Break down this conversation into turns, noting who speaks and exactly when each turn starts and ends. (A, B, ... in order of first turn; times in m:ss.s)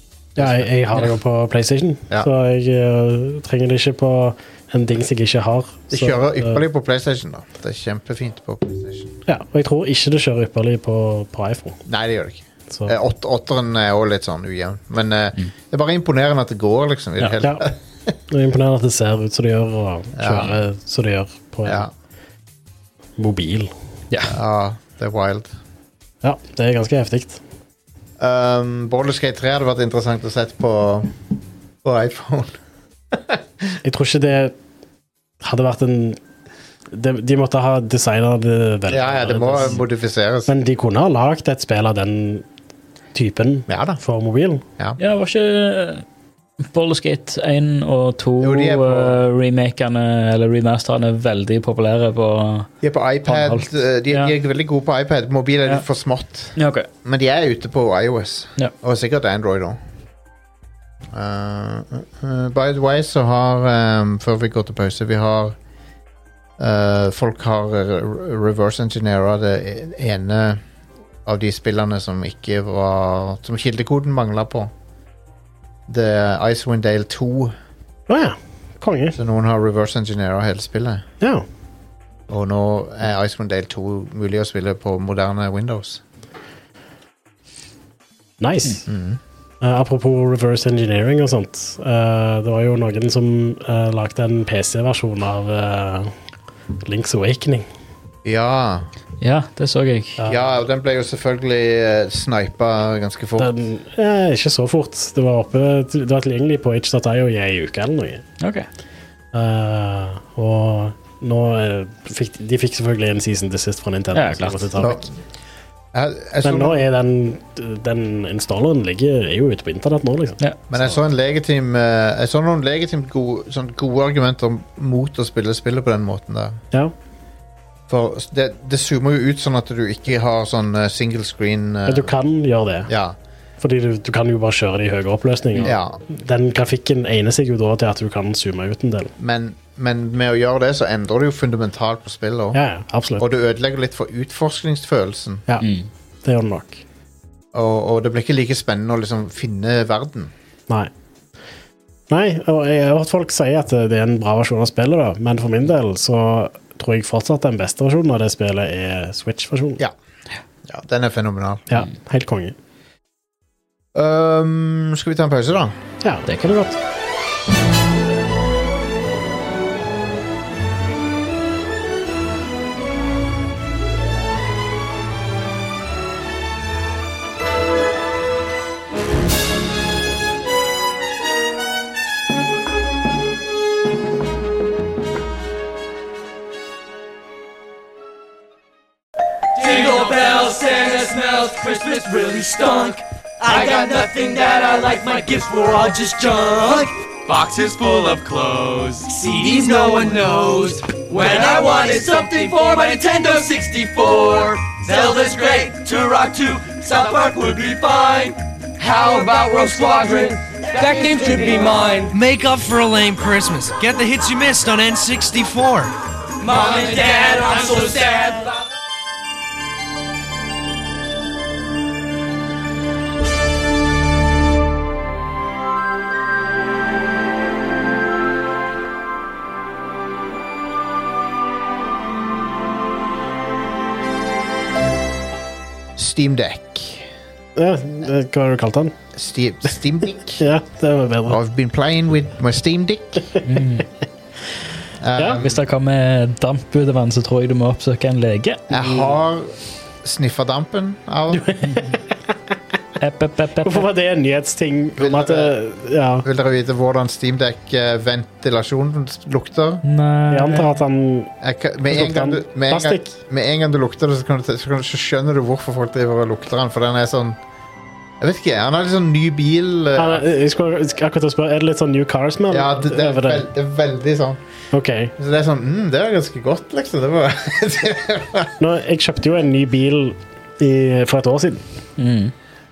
0:00.4-0:00.7 A
0:00.4-0:06.6 B
0:05.9-0:09.2 A
0:09.3-0:11.8 B
0:11.9-0:17.8 A
0:12.7-0:13.0 B
0:17.4-0:17.7 B
0:18.3-0:21.9 B
0:20.2-0:20.6 A
0:21.6-0:21.9 A
0:23.2-0:23.7 B
0:24.3-0:25.5 A
0:26.2-0:27.4 B
0:28.2-0:31.2 A
0:31.8-0:32.6 A
0:33.1-0:33.8 A
0:33.8-0:34.6 B
0:35.4-0:36.2 B
0:36.9-0:39.8 B
0:38.9-0:40.5 A
0:40.5-0:42.4 B
0:43.1-0:44.6 B
0:43.7-0:44.0 A
0:45.0-0:46.0 C
0:46.7-0:52.7 C
0:48.4-0:49.2 A
0:52.8-0:59.8 A
0:53.3-0:54.3 C
0:56.6-0:56.9 C
1:01.1-1:05.6 A
1:06.6-1:10.6 A
1:11.2-1:14.7 A
1:15.9-1:17.5 A
1:18.1-1:19.2 B
1:19.2-1:21.0 A
1:22.3-1:26.0 A
1:28.4-1:28.8 B
1:28.9-1:29.2 A
1:29.6-1:36.1 B
1:36.8-1:37.7 B
1:38.2-1:38.9 A
1:39.2-1:40.2 C
1:40.3-1:43.5 A
1:43.4-1:48.2 B
1:48.4-1:48.7 C
1:49.3-1:55.0 B
1:54.1-1:54.9 C
1:54.8-1:55.1 A
1:55.9-1:56.9 A
1:56.4-2:00.4 B
2:00.7-2:06.6 A
2:07.9-2:12.1 A
2:11.9-2:12.9 B
2:12.9-2:13.2 A
2:13.6-2:19.1 B
2:15.6-2:16.0 A
2:19.2-2:22.6 A
2:22.5-2:23.3 B
2:23.2-2:25.4 A
2:25.6-2:25.9 C
2:26.2-2:26.8 B
2:27.5-2:30.3 A
2:32.1-2:39.8 B
2:40.6-2:41.8 A
2:41.7-2:42.6 B
2:43.9-2:45.8 A
2:46.0-2:46.8 B
3:09.6-3:32.1 D
3:32.1-3:35.9 E
3:36.4-3:38.6 D
3:56.0-3:57.1 A
3:57.6-3:58.9 B
3:59.1-4:00.4 A
4:00.4-4:01.4 B
4:01.3-4:03.3 A
4:03.4-4:03.9 C
4:05.0-4:05.6 A
4:05.2-4:05.4 B
4:05.4-4:09.1 C
4:08.7-4:11.5 A
4:11.3-4:12.0 B
4:13.0-4:13.9 C
4:13.6-4:16.3 B
4:15.0-4:15.5 A
4:16.2-4:19.8 A
4:19.8-4:20.8 C
4:20.3-4:21.3 B
4:21.4-4:27.4 A
4:21.9-4:23.2 B
4:28.2-4:30.2 A
4:30.0-4:33.5 B
4:32.5-4:34.4 A
4:34.7-4:35.1 B
4:35.2-4:38.6 A
4:38.6-4:41.6 B
4:42.0-4:42.3 C